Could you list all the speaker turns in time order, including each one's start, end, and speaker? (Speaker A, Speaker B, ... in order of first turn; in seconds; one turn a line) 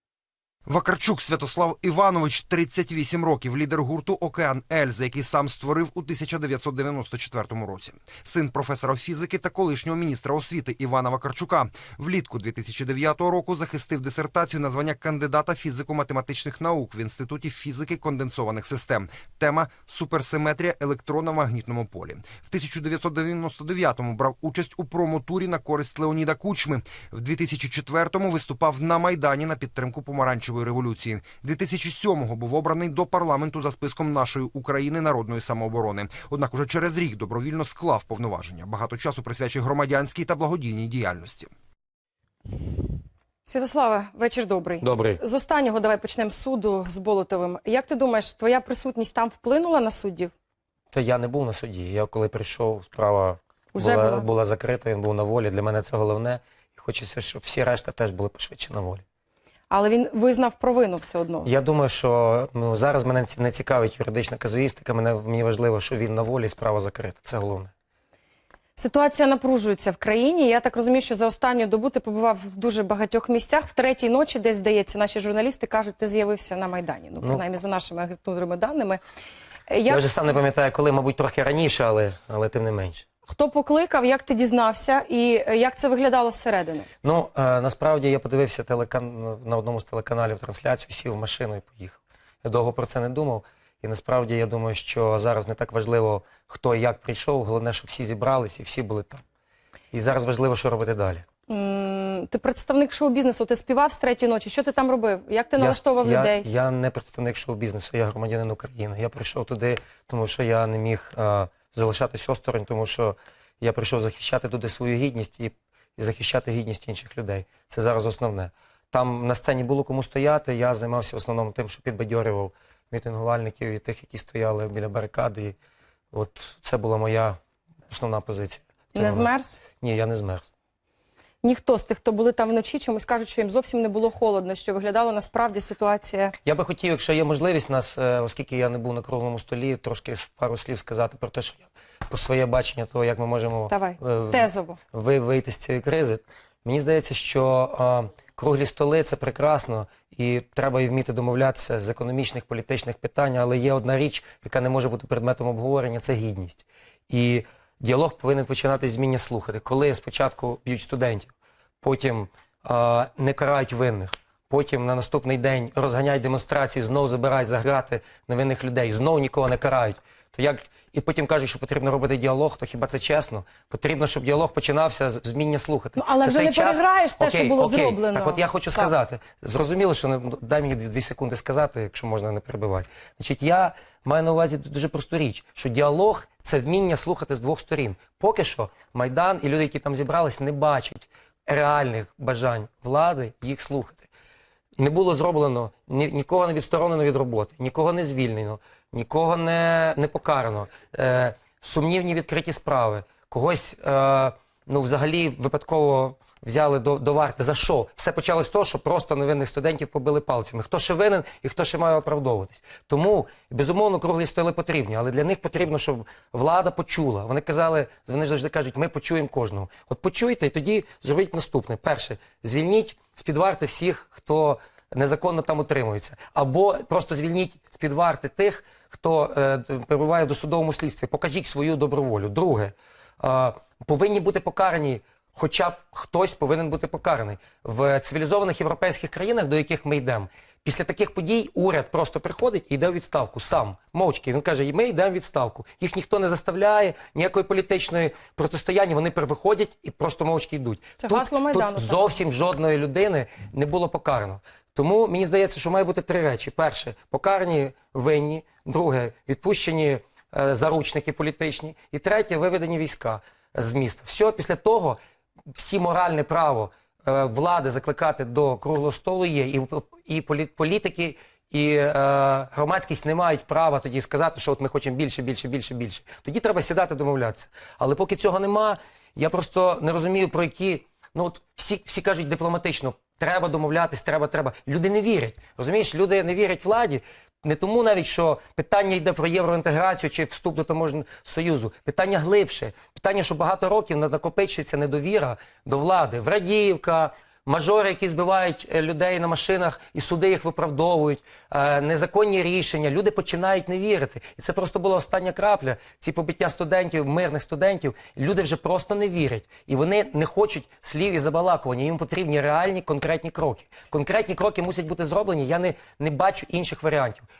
Speaker A: 0.7-41.5
Speaker B: 43.4-50.3
Speaker C: 44.8-45.2
Speaker C: 50.9-59.0
Speaker B: 53.7-54.2
Speaker B: 59.7-61.5
Speaker C: 61.4-67.7
Speaker B: 68.8-79.0
Speaker B: 79.7-80.3
Speaker C: 79.9-83.0
Speaker B: 83.2-86.9
Speaker C: 87.0-99.2
Speaker C: 99.9-101.2
Speaker B: 101.5-106.4
Speaker C: 105.6-125.5
Speaker C: 126.1-127.4
Speaker C: 127.9-130.5
Speaker B: 128.9-129.6
Speaker B: 131.4-136.3
Speaker C: 136.4-194.1
Speaker B: 143.7-144.8
Speaker B: 176.0-178.9
Speaker C: 194.8-265.0
Speaker B: 251.0-252.1
Speaker C: 265.5-317.2